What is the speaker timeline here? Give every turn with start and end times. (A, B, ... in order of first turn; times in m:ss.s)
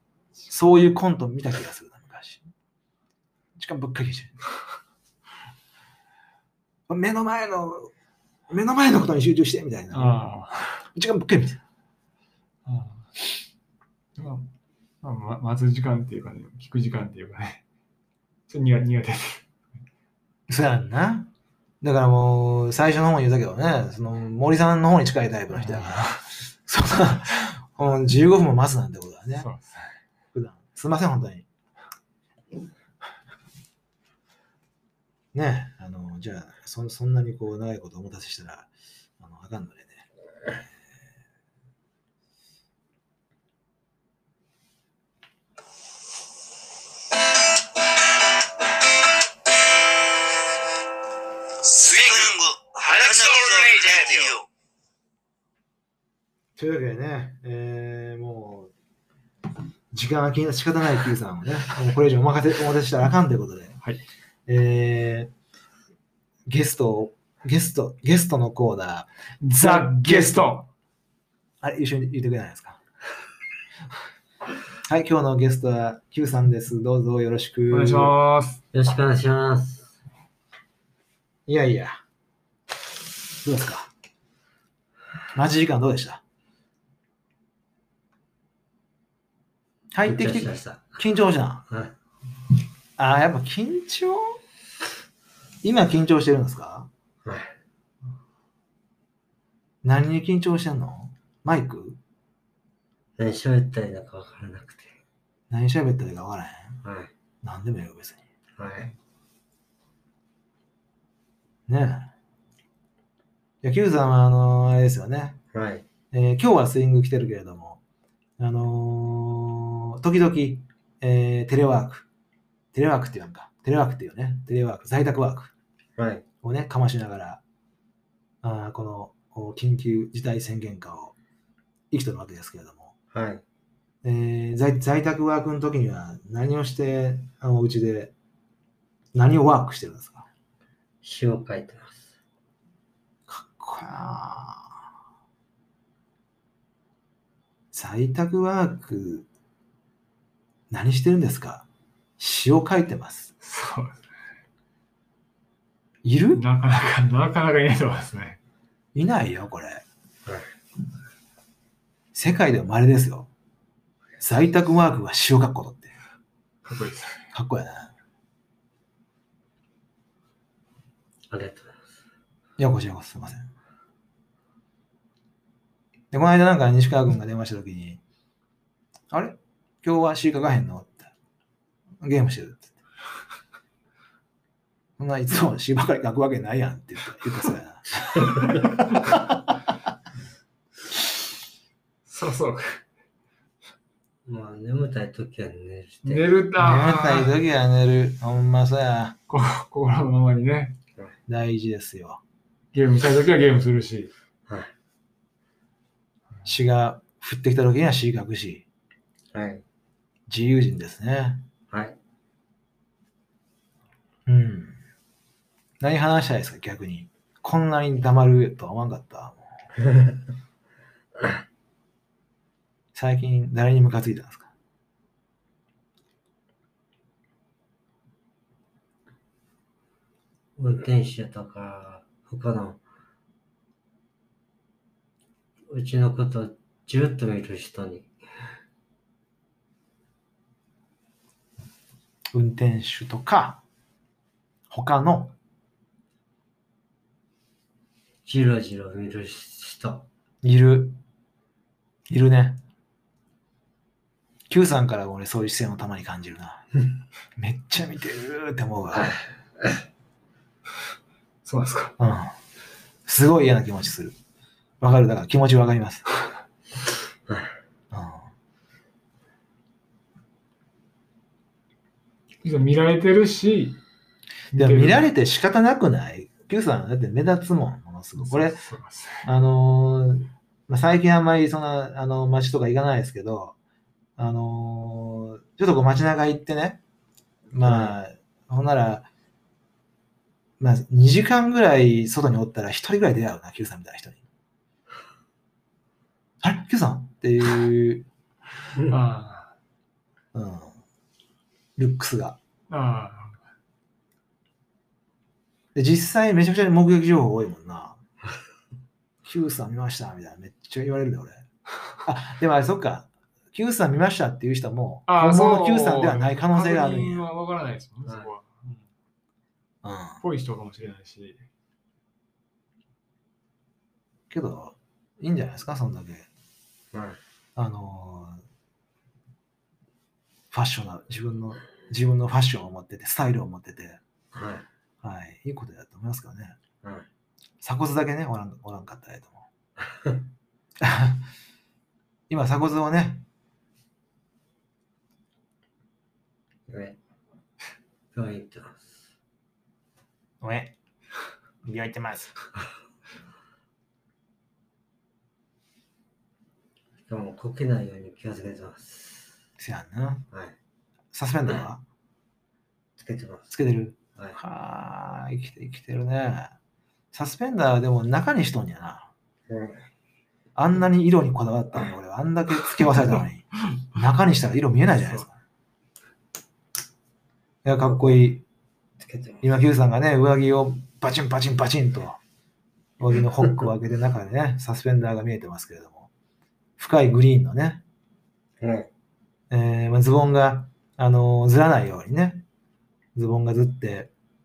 0:00.5-0:02.5 A
0:03.6-0:04.4 A
0:06.9-0:07.9 A
0:08.5-0:10.2 A
0:09.9-0:10.8 B
0:10.9-0:11.6 A
0:12.6-0:13.1 B
0:14.2-0:14.5 B
0:15.0-0:17.6 B
0:18.5-0:19.5 B
0:20.5-0:21.3 A
0:21.8-0:26.2 A
0:25.5-0:26.2 B
0:26.7-0:29.5 A
0:29.4-0:29.9 B
0:30.3-0:31.4 A
0:35.3-0:40.0 A
0:51.6-0:54.4 C
0:56.6-0:58.7 A
0:59.9-1:03.8 A
1:04.5-1:05.3 A
1:06.4-1:10.5 A
1:09.4-1:10.7 B
1:11.6-1:12.8 A
1:14.8-1:18.1 A
1:17.7-1:18.6 B
1:18.7-1:19.9 D
1:21.5-1:22.0 A
1:23.4-1:23.9 A
1:25.3-1:26.2 A
1:29.9-1:31.7 A
1:30.0-1:31.0 D
1:31.7-1:31.9 D
1:33.0-1:34.4 A
1:35.6-1:36.9 A
1:37.2-1:37.5 D
1:39.8-1:42.0 A
1:43.2-1:45.0 D
1:45.5-1:46.8 A
1:46.8-1:47.1 D
1:47.4-1:48.2 A
1:48.6-1:48.9 D
1:51.7-1:52.1 A
1:53.6-1:55.4 A
1:55.5-1:55.8 D
1:56.1-1:57.8 A
1:58.4-2:02.0 A
2:02.7-2:05.5 A
2:06.0-2:06.2 D
2:06.4-2:07.4 A
2:08.4-2:11.1 A
2:11.9-2:12.9 A
2:13.1-2:13.4 D
2:14.0-2:18.1 A
2:19.1-2:20.3 A
2:21.0-2:22.1 D
2:23.3-2:24.8 A
2:27.7-2:29.2 A
2:30.7-2:31.6 A
2:32.2-2:33.3 A
2:33.4-2:34.1 B
2:36.0-2:36.4 A
2:36.3-2:38.4 B
2:38.9-2:39.8 A
2:40.2-2:40.5 D
2:42.1-2:43.3 A
2:44.2-2:45.9 A
2:46.6-2:47.2 B
2:47.3-2:47.9 A
2:51.3-2:51.9 D
2:52.6-2:53.5 A
2:56.1-2:58.0 A
2:59.1-3:01.1 A
3:02.0-3:02.7 A
3:05.0-3:09.4 A
3:12.0-3:12.8 B
3:14.2-3:16.2 D
3:16.0-3:17.3 B
3:16.6-3:19.2 A
3:19.3-3:20.8 B
3:21.3-3:22.2 A
3:22.7-3:24.1 B
3:24.5-3:24.7 D
3:26.4-3:28.6 A
3:29.3-3:29.6 D
3:30.3-3:31.4 A
3:31.7-3:32.0 D
3:34.2-3:34.8 A
3:35.8-3:39.5 A
3:39.8-3:40.2 D
3:42.9-3:44.5 A
3:50.6-3:52.8 D
3:55.7-3:58.1 D
4:02.3-4:03.6 A
4:04.7-4:05.3 A
4:08.2-4:10.1 D
4:10.4-4:11.0 A
4:12.1-4:12.6 A
4:14.5-4:16.7 A
4:17.4-4:19.1 A
4:18.9-4:19.8 D
4:21.4-4:21.9 B
4:22.0-4:22.4 A
4:23.0-4:24.2 A
4:24.8-4:26.0 A
4:27.3-4:27.5 D
4:27.9-4:28.3 A
4:32.4-4:33.8 B
4:34.5-4:35.1 B
4:34.6-4:38.6 A
4:38.2-4:39.3 B
4:39.2-4:43.6 A
4:44.2-4:46.8 A
4:47.5-4:49.1 A
4:47.6-4:47.9 D
4:50.6-4:54.2 A
4:56.4-4:58.1 A
4:58.9-4:59.5 B
5:00.3-5:00.7 A
5:01.8-5:02.4 A
5:02.7-5:03.4 B
5:05.7-5:08.0 A
5:09.2-5:11.4 A
5:12.0-5:17.3 A
5:15.1-5:18.8 B
5:19.8-5:20.2 A
5:20.2-5:21.4 B
5:24.3-5:26.3 A
5:26.9-5:27.2 D
5:27.6-5:28.4 A
5:30.5-5:34.0 A
5:34.3-5:34.7 D
5:35.0-5:36.6 A
5:37.6-5:39.5 A
5:39.8-5:40.2 D
5:40.8-5:41.2 A
5:42.3-5:43.2 A
5:46.7-5:47.0 D
5:48.1-5:49.1 D
5:50.4-5:50.7 A
5:51.6-5:52.3 A
5:57.0-5:59.4 D
5:59.6-6:00.3 A
6:00.3-6:00.6 D
6:01.1-6:01.8 A
6:03.0-6:03.5 D
6:03.5-6:06.5 A
6:07.1-6:09.1 A
6:09.5-6:09.8 D
6:10.6-6:15.3 A
6:17.6-6:18.4 A
6:19.0-6:19.5 D
6:19.4-6:22.2 A
6:23.0-6:26.1 A
6:26.8-6:27.8 A
6:28.6-6:28.9 D
6:29.5-6:32.4 A
6:33.1-6:34.1 A